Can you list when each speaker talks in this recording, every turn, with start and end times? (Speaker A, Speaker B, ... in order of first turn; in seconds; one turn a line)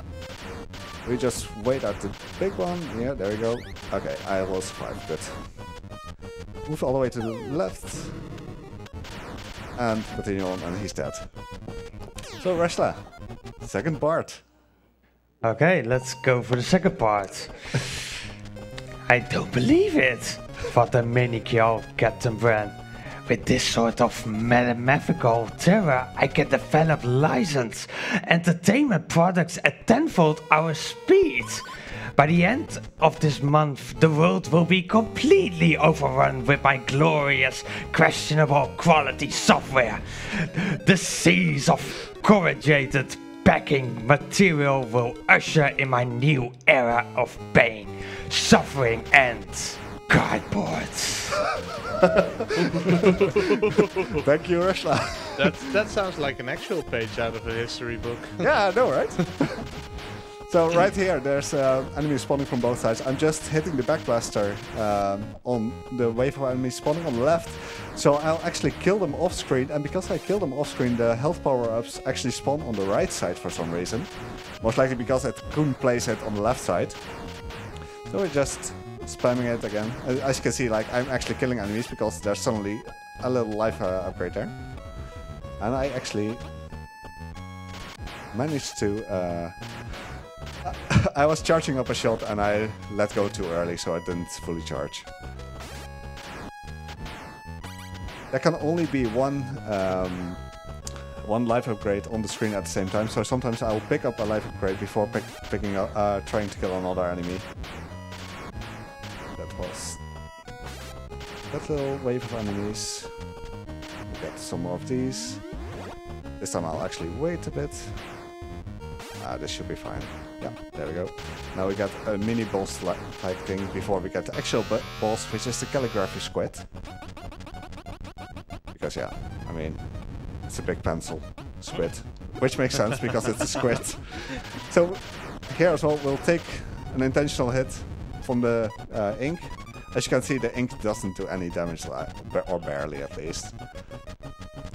Speaker A: 1.0-5.9
Speaker A: 6.7-8.4
Speaker A: 9.8-11.6
Speaker A: 12.3-14.4
Speaker B: 15.4-18.0
Speaker B: 19.1-22.8
Speaker B: 23.3-31.6
Speaker B: 32.2-51.4
Speaker A: 52.1-53.1
Speaker C: 53.5-54.2
Speaker A: 54.2-55.6
Speaker C: 55.4-58.7
Speaker A: 58.4-77.5
Speaker A: 78.0-84.9
Speaker A: 85.6-86.5
Speaker A: 88.3-95.1
Speaker A: 98.3-100.6
Speaker A: 101.2-107.5
Speaker A: 109.3-110.5
Speaker A: 111.5-113.4
Speaker A: 114.1-115.6
Speaker A: 116.4-118.3
Speaker A: 119.2-126.7
Speaker A: 128.7-143.7